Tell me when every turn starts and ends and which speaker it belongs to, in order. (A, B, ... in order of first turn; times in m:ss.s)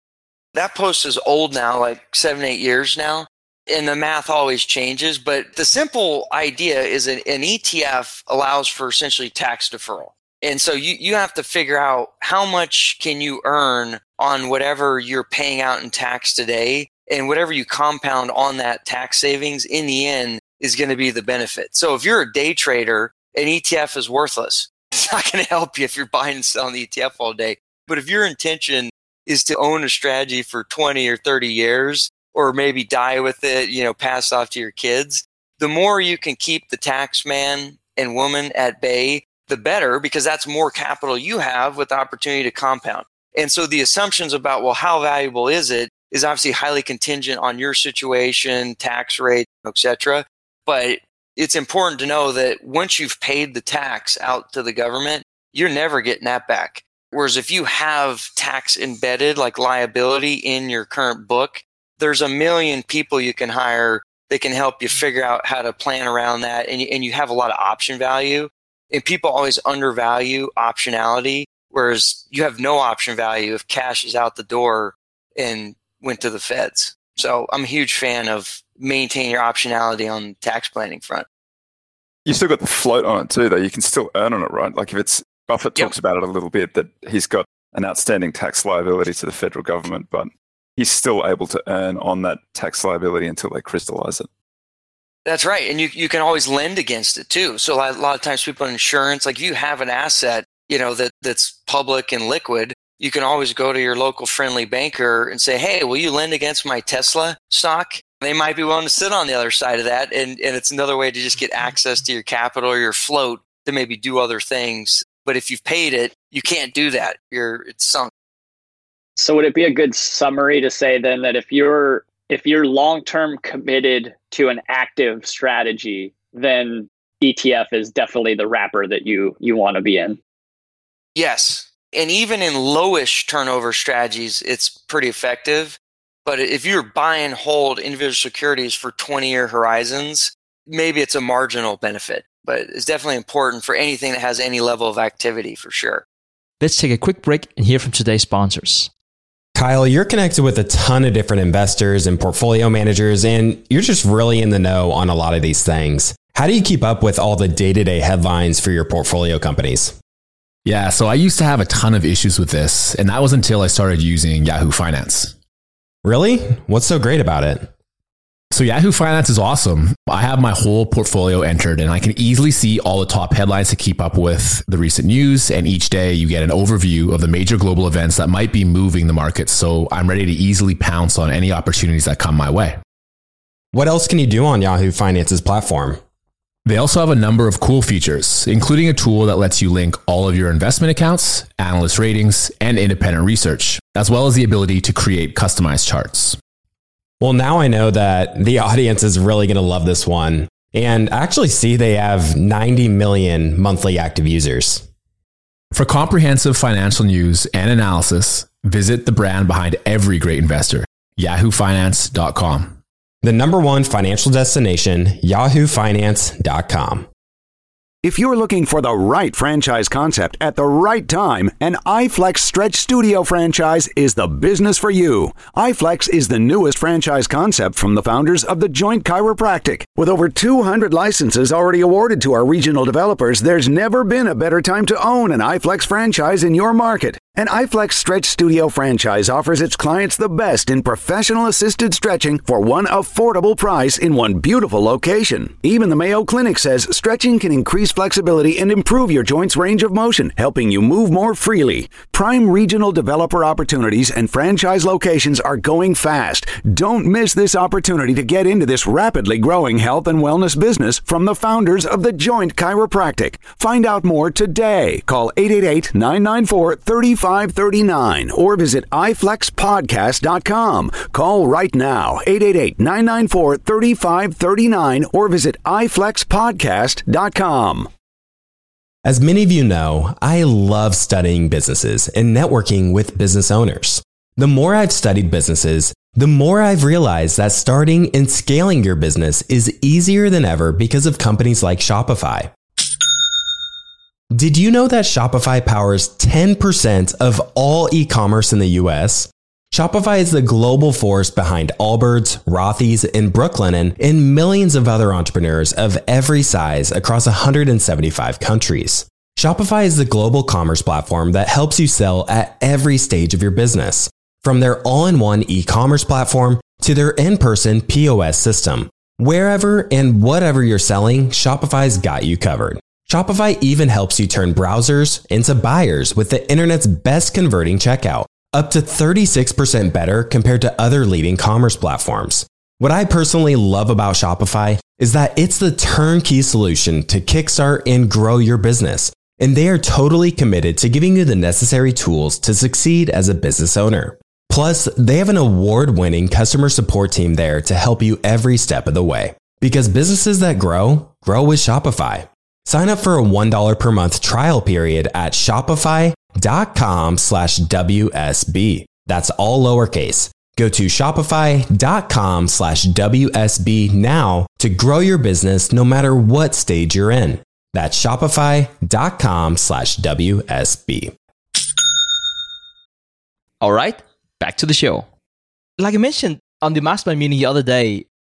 0:00.5-1:21.3 A
1:22.2-1:34.3 B
1:35.2-1:58.1 A
1:59.2-2:10.2 C
2:11.2-2:26.0 A
2:26.6-2:28.9 D
2:29.6-2:40.0 E
2:40.6-2:45.4 F
2:46.0-2:47.7 E
2:48.5-3:02.8 F
3:03.7-3:06.0 E
3:06.7-3:16.4 F
3:17.2-3:24.8 E
3:25.7-3:32.8 F
3:33.2-3:37.1 E
3:38.0-4:37.9 G
4:39.0-4:52.5 E
4:54.4-6:11.1 E
6:13.6-6:15.1 D
6:15.8-6:18.0 D